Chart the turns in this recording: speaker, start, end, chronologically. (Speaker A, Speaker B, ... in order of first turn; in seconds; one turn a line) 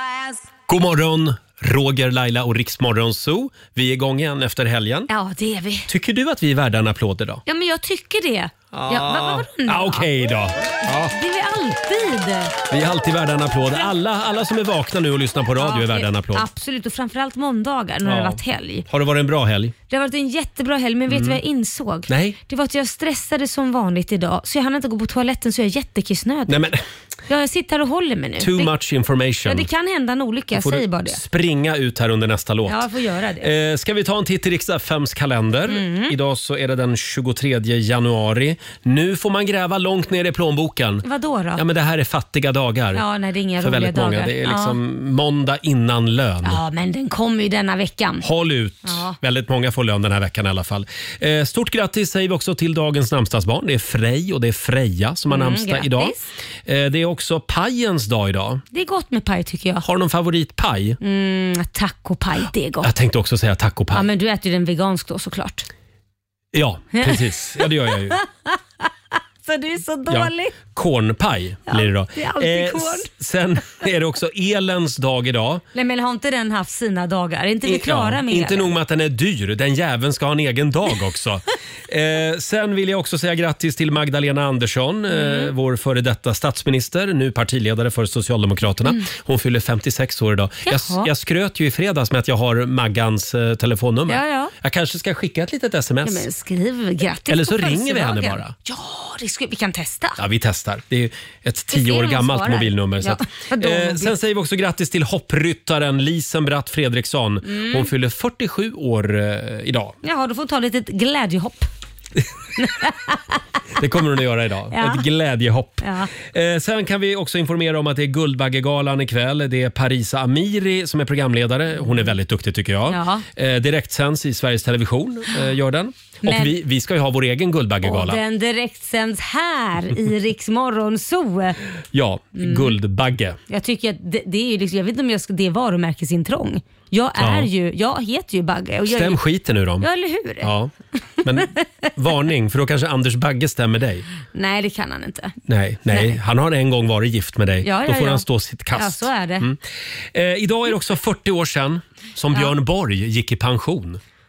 Speaker A: 0.7-5.1
Speaker B: 5.1-5.9
Speaker A: 5.9-7.4
Speaker B: 7.5-10.1
Speaker A: 8.7-11.1
Speaker B: 11.1-12.6
Speaker A: 12.7-16.5
Speaker B: 15.6-18.9
Speaker A: 18.0-19.7
Speaker B: 19.9-26.7
Speaker A: 21.1-21.4
Speaker A: 22.1-22.4
Speaker A: 26.5-26.8
Speaker B: 27.3-28.7
Speaker A: 28.4-29.7
Speaker B: 29.5-31.2
Speaker A: 30.6-32.8
Speaker B: 32.7-33.5
Speaker A: 33.4-41.0
Speaker B: 35.7-36.1
Speaker B: 41.0-41.6
Speaker A: 41.6-43.0
Speaker B: 42.9-44.8
Speaker A: 43.6-46.6
Speaker B: 46.4-48.2
Speaker A: 48.2-56.1
Speaker B: 48.9-49.2
Speaker B: 55.3-56.3
Speaker A: 56.7-58.6
Speaker B: 58.7-59.8
Speaker A: 59.8-61.0
Speaker B: 61.0-62.9
Speaker A: 62.8-64.0
Speaker B: 63.9-65.7
Speaker A: 66.5-68.2
Speaker B: 67.0-70.6
Speaker A: 70.1-75.6
Speaker B: 71.7-73.1
Speaker B: 75.7-78.7
Speaker A: 77.7-96.3
Speaker B: 85.1-85.5
Speaker B: 90.7-91.1
Speaker B: 94.1-94.5
Speaker B: 96.0-100.2
Speaker A: 97.3-98.5
Speaker A: 100.2-110.0
Speaker B: 101.7-104.1
Speaker B: 107.4-107.9
Speaker B: 110.0-111.7
Speaker B: 112.6-113.4
Speaker A: 113.8-128.2
Speaker B: 114.7-115.0
Speaker B: 115.8-116.1
Speaker B: 122.9-123.2
Speaker B: 126.2-126.5
Speaker B: 127.8-131.6
Speaker A: 131.9-133.4
Speaker B: 132.4-132.8
Speaker B: 133.5-139.2
Speaker A: 137.2-137.5
Speaker A: 138.9-139.9
Speaker B: 139.8-140.5
Speaker A: 140.4-140.7
Speaker A: 141.2-144.1
Speaker B: 144.3-145.3
Speaker A: 145.5-149.6
Speaker B: 145.9-146.2
Speaker B: 147.6-149.5
Speaker A: 150.1-154.0